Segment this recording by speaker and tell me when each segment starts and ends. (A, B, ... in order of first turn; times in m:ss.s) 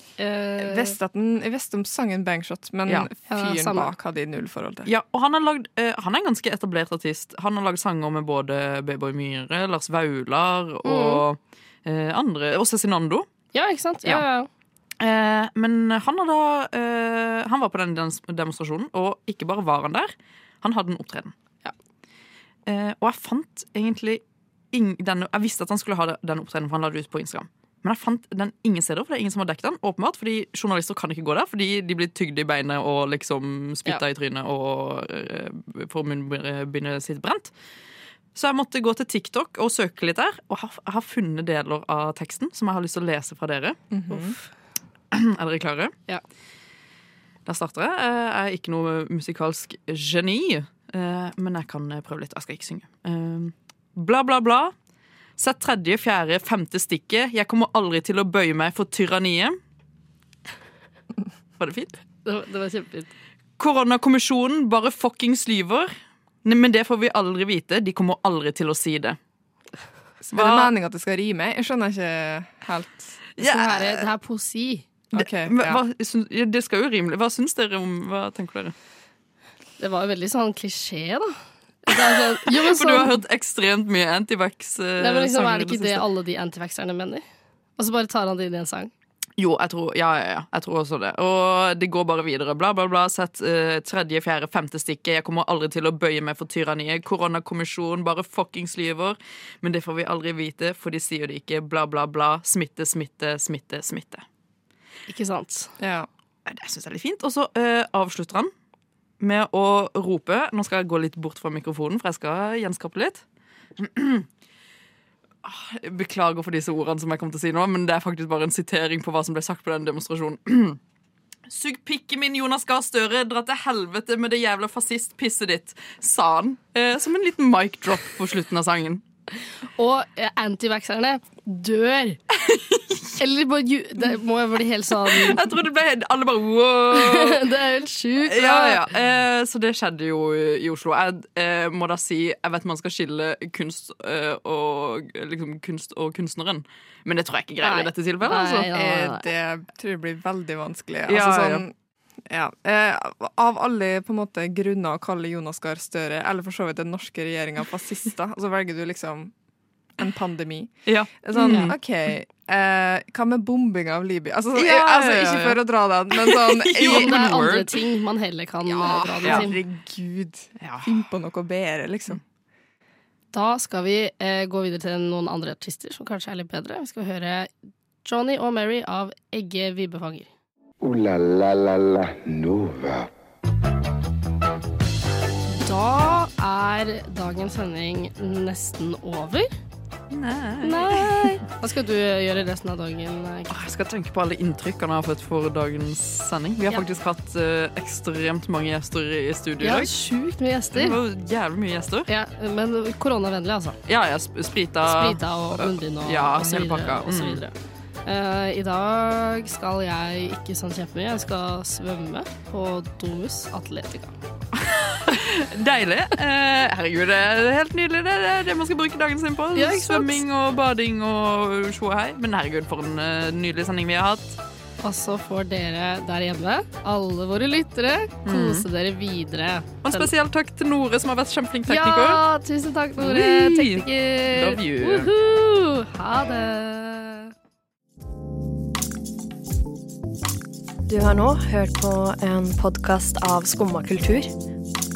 0:00.2-0:01.0 A
0:00.6-0:04.9 B
0:03.3-0:03.9 A
0:04.9-0:13.3 C
0:10.8-0:11.2 A
0:13.5-0:14.5 A
0:15.0-0:21.3 C
0:22.7-0:37.5 C
0:38.4-0:43.8 C
0:43.9-0:44.4 B
0:45.1-0:46.0 C
0:47.5-0:54.7 C
0:55.4-0:59.6 C
1:01.6-1:01.9 C
1:02.2-1:03.1 A
1:03.6-1:05.9 C
1:06.4-1:09.2 C
1:10.2-1:13.2 B
1:10.3-1:10.7 C
1:13.4-1:14.0 C
1:13.4-1:14.9 A
1:15.1-1:15.8 B
1:15.2-1:18.7 C
1:19.8-1:21.3 A
1:21.8-1:23.2 A
1:22.0-1:26.0 C
1:25.0-1:27.2 A
1:27.8-1:28.9 A
1:29.4-1:44.2 C
1:45.1-1:45.7 A
1:45.8-1:46.1 B
1:46.5-1:48.5 C
1:49.2-1:53.2 C
1:53.8-1:54.3 C
1:55.4-2:00.8 C
2:01.5-2:09.0 C
2:09.8-2:12.2 A
2:12.4-2:13.1 C
2:13.2-2:15.4 A
2:15.0-2:17.4 C
2:16.9-2:18.8 A
2:18.2-2:28.7 C
2:27.6-2:29.3 A
2:28.7-2:31.7 B
2:31.1-2:31.6 C
2:32.3-2:39.3 B
2:40.0-2:47.4 B
2:40.9-2:41.8 C
2:44.6-2:45.6 C
2:46.1-2:47.8 C
2:46.8-2:49.6 A
2:48.7-2:52.2 B
2:49.2-2:49.5 C
2:50.6-2:50.9 C
2:53.3-2:57.5 A
2:58.0-3:00.3 A
3:00.8-3:03.1 D
3:05.6-3:09.5 A
3:10.1-3:11.4 C
3:10.6-3:13.5 A
3:13.5-3:19.9 C
3:19.6-3:21.0 A
3:20.7-3:22.1 C
3:22.1-3:23.8 A
3:23.9-3:27.4 C
3:24.9-3:27.5 A
3:28.1-3:34.2 A
3:34.5-3:44.4 C
3:39.6-3:40.2 A
3:44.8-3:50.1 A
3:48.3-3:48.7 C
3:49.8-3:52.2 C
3:51.7-3:57.3 A
3:53.0-3:55.1 C
4:00.9-4:04.3 E